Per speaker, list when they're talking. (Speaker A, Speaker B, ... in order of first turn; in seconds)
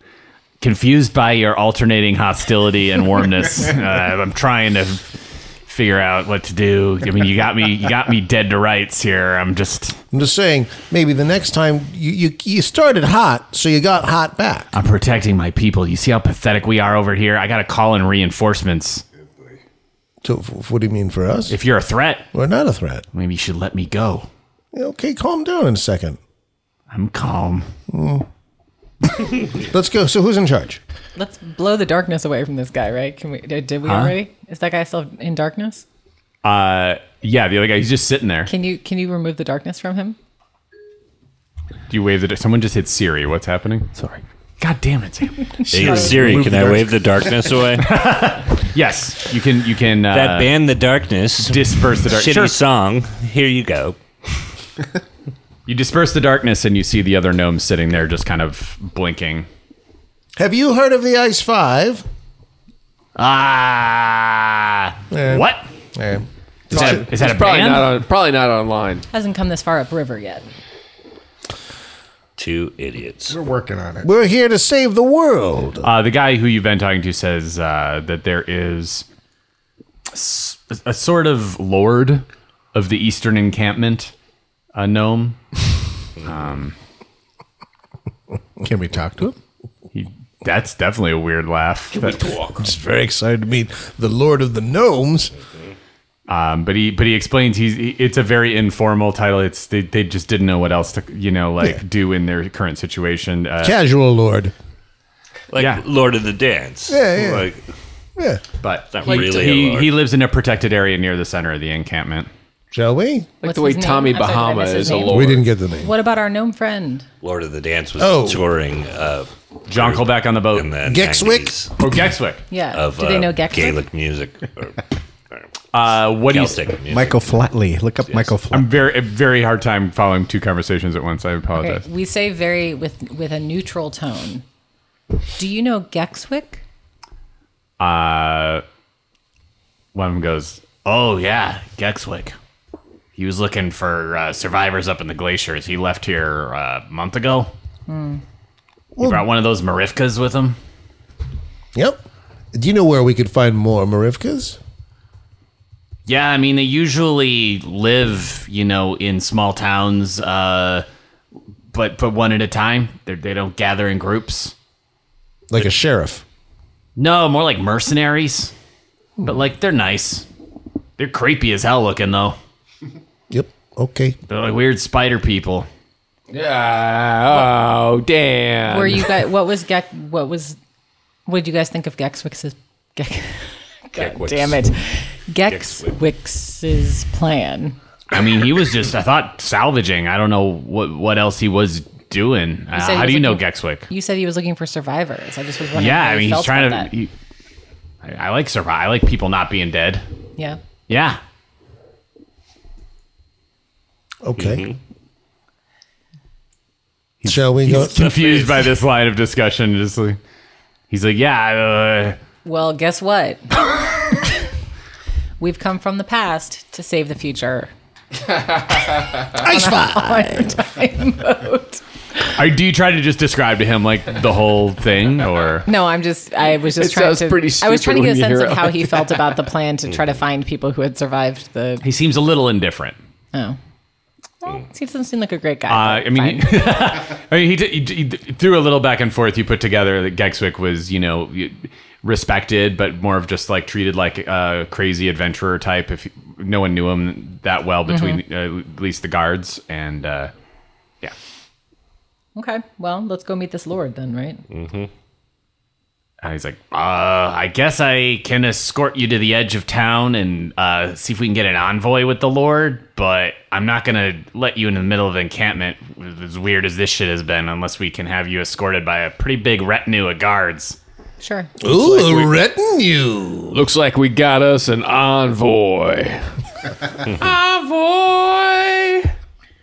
Speaker A: 0.6-10.0, 14.7-19.0, 21.5-22.3, 23.1-24.3, 26.9-27.7, 33.8-34.1, 36.4-38.5, 41.9-43.9, 44.6-45.6, 47.8-50.5, 51.4-52.6, 55.7-59.5, 63.1-65.7, 66.7-67.9, 75.8-79.0, 80.1-84.1, 84.7-85.4, 86.2-86.7, 89.9-92.3, 96.3-103.8, 105.5-105.8, 108.6-112.3, 119.7-120.7, 121.8-122.4, 125.7-126.6, 128.5-131.8, 137.8-138.6, 139.9-142.3, 143.2-147.5, 149.0-150.6, 156.1-160.8, 161.7-164.5, 167.0-168.5, 169.2-170.2, 171.0-172.4, 174.3-175.7, 188.1-193.9, 195.7-197.1, 198.0-200.1, 200.9-201.2, 207.2-210.2, 210.9-212.2, 222.3-225.7, 231.8-233.0, 235.7-250.3, 256.2-270.8
Speaker B: 10.1-14.7, 20.2-21.6, 22.3-23.0, 24.7-26.2, 27.9-28.3, 29.3-30.8, 45.8-47.0, 60.4-62.0, 65.1-67.0, 74.0-75.9, 92.5-95.3, 103.6-104.5, 106.9-107.5, 108.2-108.4, 112.7-113.3, 115.1-115.9, 118.0-118.5, 120.8-121.5, 148.9-149.2, 151.7-152.0, 152.5-154.6, 165.5-166.2, 173.3-174.2, 204.2-204.7, 207.2-208.1, 219.3-220.5, 271.6-273.6
Speaker C: 31.1-35.8, 38.5-40.2, 69.1-70.4, 113.4-117.0, 122.5-123.8, 131.6-134.4, 135.4-136.6, 147.9-148.2, 178.7-180.6, 181.2-187.8, 192.7-196.9, 212.4-214.3, 215.4-217.7, 219.3-222.3, 225.7-231.8, 233.3-233.6, 234.4-236.8, 247.9-248.2, 252.3-254.4, 271.2-271.6
Speaker D: 44.0-44.2, 66.7-69.0, 91.9-92.6, 113.4-115.5, 176.3-179.2, 226.6-229.4, 273.5-276.4, 277.0-279.1
Speaker E: 45.7-46.8, 73.3-74.1, 88.6-89.3, 126.9-128.8
Speaker F: 45.7-47.9, 50.1-54.0, 72.4-73.4, 105.5-107.6, 108.9-110.0, 117.2-121.7, 122.7-125.5, 126.1-127.4, 128.1-128.3, 183.9-184.6, 185.5-186.0, 204.4-204.8, 207.8-208.5, 254.5-254.9